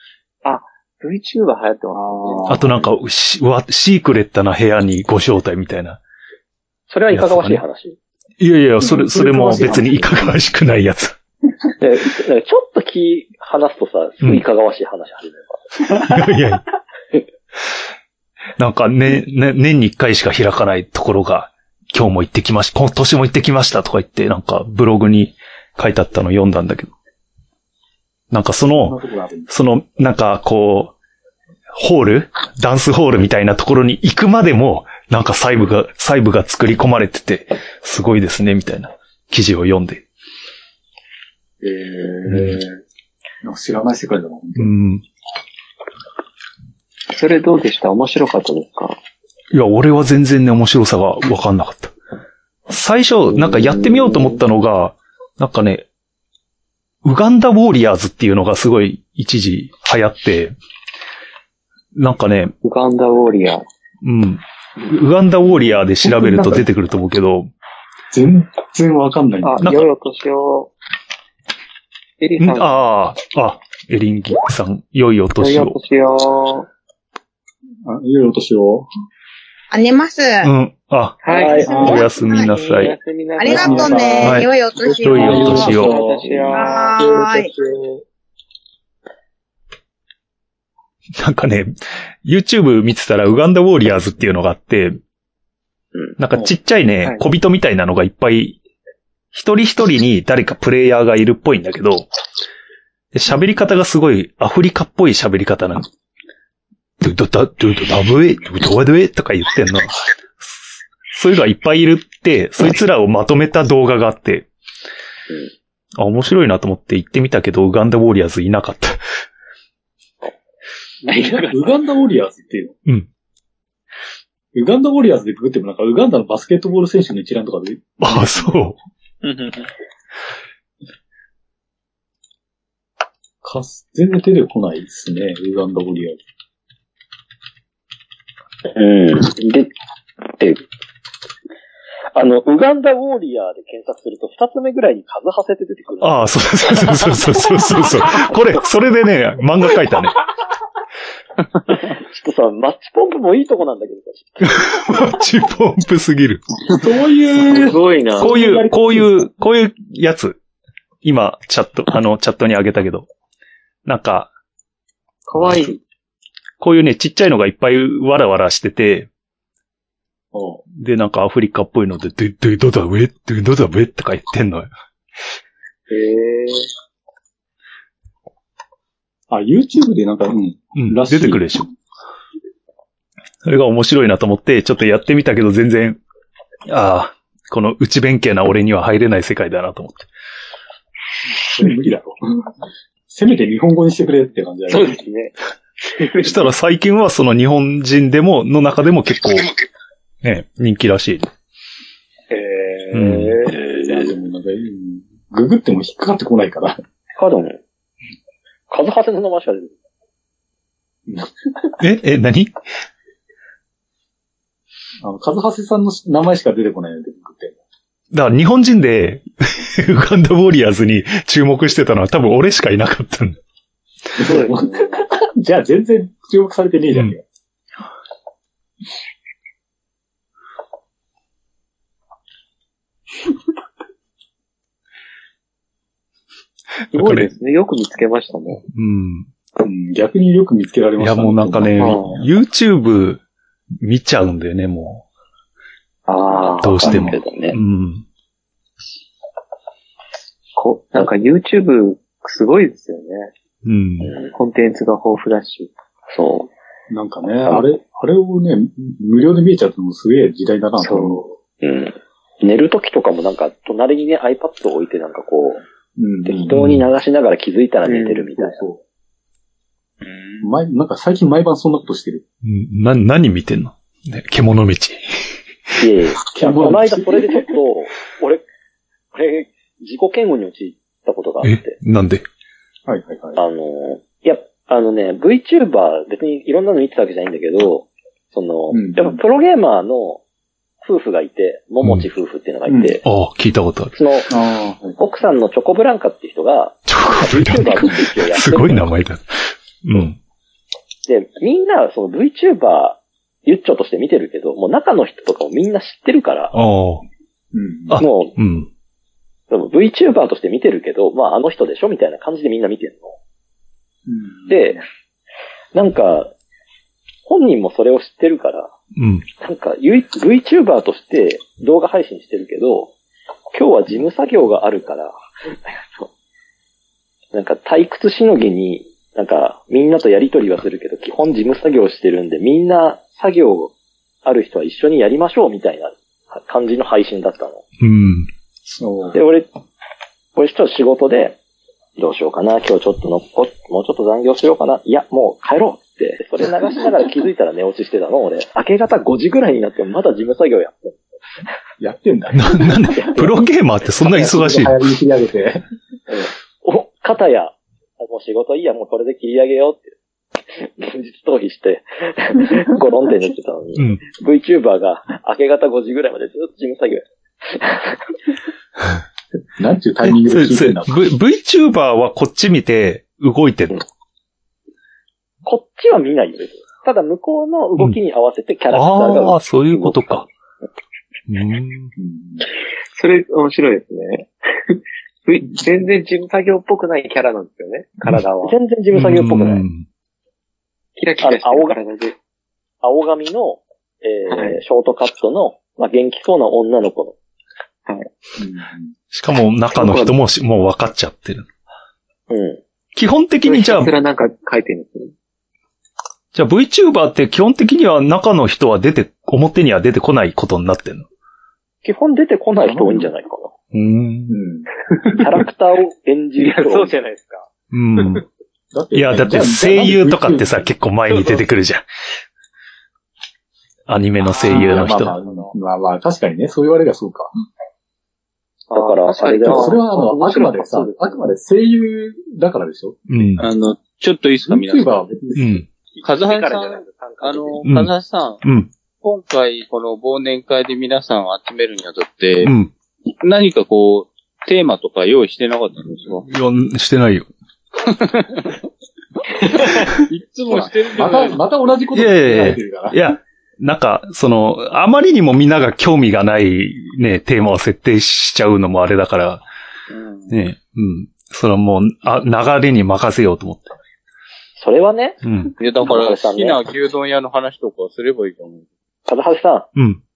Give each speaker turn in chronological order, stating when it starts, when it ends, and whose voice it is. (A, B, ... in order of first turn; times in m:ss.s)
0:00.4-0:02.6 A
0:01.9-0:02.9 B
0:02.5-0:06.0 C
0:06.9-0:08.0 D
0:07.1-0:07.6 C
0:08.4-0:11.2 C
0:08.8-0:10.5 B
0:11.8-0:16.0 D
0:15.9-0:16.6 C
0:18.6-0:26.9 C
0:28.3-0:29.0 C
0:28.8-0:29.5 B
0:29.5-0:30.9 C
0:31.8-0:40.0 C
0:41.6-0:42.8 B
0:42.3-0:42.6 C
0:43.4-0:44.7 B
0:44.6-0:45.0 C
0:47.1-0:49.0 A
0:49.5-0:51.9 C
0:52.7-0:55.8 C
0:53.4-0:54.4 A
0:57.0-1:00.5 C
1:01.9-1:02.5 C
1:02.6-1:03.6 A
1:04.0-1:07.5 C
1:06.0-1:06.6 B
1:08.1-1:09.6 B
1:09.4-1:10.7 A
1:12.2-1:12.8 A
1:12.4-1:15.8 C
1:15.4-1:16.7 A
1:17.9-1:18.9 B
1:19.7-1:20.5 E
1:20.4-1:23.0 C
1:21.2-1:24.3 A
1:21.3-1:22.0 D
1:21.6-1:22.5 E
1:21.6-1:22.0 B
1:23.4-1:25.7 E
1:23.4-1:27.7 B
1:24.2-1:24.5 C
1:25.0-1:26.0 C
1:25.2-1:27.2 A
1:26.5-1:27.5 E
1:31.2-1:31.7 C
1:32.2-1:35.0 C
1:36.2-1:38.6 C
1:39.3-1:42.1 C
1:43.1-1:45.9 C
1:47.0-1:54.5 C
1:56.0-1:59.0 C
2:01.0-2:02.8 B
2:04.5-2:08.7 B
2:08.0-2:08.8 C
2:13.4-2:16.2 B
2:18.7-2:19.7 D
2:20.3-2:20.6 D
2:22.1-2:28.4 D
2:26.0-2:30.2 C
2:31.7-2:35.0 D
2:34.5-2:36.4 C
2:36.7-2:39.1 B
2:37.5-2:38.3 A
2:38.2-2:40.4 C
2:41.0-2:43.1 C
2:43.9-2:44.3 C
2:45.3-2:45.8 A
2:45.4-2:45.7 C
2:46.6-2:49.1 C
2:50.3-2:50.6 B
2:50.7-2:54.7 C
2:55.9-2:56.7 A
2:59.3-3:01.7 B
3:00.8-3:01.7 C
3:03.4-3:06.0 C
3:06.7-3:10.1 C
3:11.5-3:12.5 B
3:13.1-3:15.0 B
3:14.7-3:16.5 A
3:16.2-3:19.5 C
3:20.2-3:21.3 C
3:22.3-3:23.6 A
3:22.9-3:23.4 C
3:23.6-3:24.1 D
3:23.7-3:26.8 B
3:27.2-3:27.6 D
3:28.7-3:29.8 D
3:31.8-3:32.6 C
3:35.0-3:37.6 B
3:38.1-3:43.4 C
3:44.2-3:47.2 B
3:44.2-3:45.0 A
3:56.9-3:57.3 C
3:56.9-3:58.6 A
3:58.7-3:59.3 C
3:59.6-4:02.2 B
4:01.0-4:03.2 C
4:01.8-4:02.2 A
4:03.8-4:05.0 C
4:06.1-4:07.1 A
4:06.3-4:07.6 D
4:06.6-4:08.0 C
4:10.6-4:13.3 A
4:13.6-4:14.1 C
4:14.0-4:14.3 D
4:14.3-4:15.7 A
4:16.1-4:16.5 D
4:16.9-4:21.3 B
4:20.8-4:21.2 A
4:21.6-4:25.6 D
4:26.0-4:26.6 B
4:26.2-4:28.6 D
4:26.5-4:26.8 C
4:27.9-4:28.8 B
4:30.0-4:30.5 F
4:30.4-4:32.2 B
4:32.4-4:35.4 C
4:35.8-4:38.4 D
4:36.3-4:37.5 B
4:39.1-4:41.8 D
4:41.4-4:42.2 C
4:42.9-4:43.4 B
4:43.4-4:50.2 D
4:48.7-4:49.2 B
4:50.8-4:53.0 D
4:52.7-4:53.0 B
4:53.0-4:53.9 C
4:53.9-4:54.3 D
4:54.3-4:55.0 B
4:55.0-4:58.9 D
4:56.9-5:00.2 C
5:01.1-5:06.6 D
5:06.5-5:07.0 C
5:07.5-5:08.0 B
5:07.9-5:08.7 C
5:08.0-5:08.4 D
5:09.5-5:13.2 D
5:14.1-5:14.8 B
5:14.5-5:14.8 D
5:15.7-5:16.3 D
5:17.3-5:18.7 D
5:19.0-5:19.3 C
5:19.4-5:22.9 D
5:23.5-5:26.1 D
5:27.3-5:33.7 D
5:34.2-5:37.6 D
5:37.8-5:38.3 C
5:38.7-5:39.2 B
5:39.1-5:39.5 D
5:40.4-5:41.4 D
5:42.0-5:51.0 D
5:51.8-5:53.4 B
5:52.3-5:54.8 C
5:54.0-5:55.6 B
5:56.1-6:00.0 D
6:00.5-6:08.1 D
6:03.8-6:04.0 C
6:09.6-6:11.0 B
6:10.0-6:13.8 C
6:15.5-6:20.3 D
6:18.7-6:20.3 C
6:21.3-6:21.9 C
6:22.0-6:22.4 B
6:22.9-6:28.6 A
6:28.4-6:29.6 D
6:28.9-6:29.9 C
6:31.0-6:32.2 A
6:31.2-6:31.8 D
6:32.8-6:37.1 D
6:34.3-6:34.6 A
6:38.4-6:38.9 B
6:39.1-6:41.5 C
6:39.7-6:40.1 A
6:42.3-6:42.6 D
6:42.9-6:43.9 C
6:43.4-6:45.1 A
6:46.3-6:51.1 C
6:51.8-6:53.5 D
6:52.6-6:53.1 B
6:53.7-6:54.4 C
6:54.3-6:54.7 B
6:54.9-6:55.3 A
6:55.1-6:57.0 D
6:56.4-6:58.2 A
6:57.7-6:58.2 C
6:58.7-7:00.7 B
6:58.9-7:01.8 C
7:03.9-7:05.2 C
7:04.3-7:05.5 A
7:04.5-7:07.3 B
7:08.7-7:09.8 D
7:08.7-7:11.2 A
7:09.4-7:13.4 B
7:13.1-7:13.5 C
7:13.4-7:15.1 F
7:14.5-7:15.6 B
7:15.4-7:15.6 C
7:15.9-7:17.6 A
7:16.0-7:18.4 F
7:17.6-7:17.9 C
7:18.4-7:18.7 C
7:19.0-7:22.5 F
7:22.4-7:22.7 C
7:23.1-7:26.3 F
7:26.3-7:27.3 C
7:27.9-7:28.6 F
7:29.6-7:31.4 F
7:30.5-7:33.0 B
7:31.9-7:39.4 C
7:39.9-7:40.4 F
7:40.3-7:43.8 C
7:44.6-7:45.2 D
7:45.2-7:45.5 C
7:45.6-7:48.7 F
7:45.8-7:46.6 D
7:49.1-7:49.7 D
7:49.8-7:50.0 C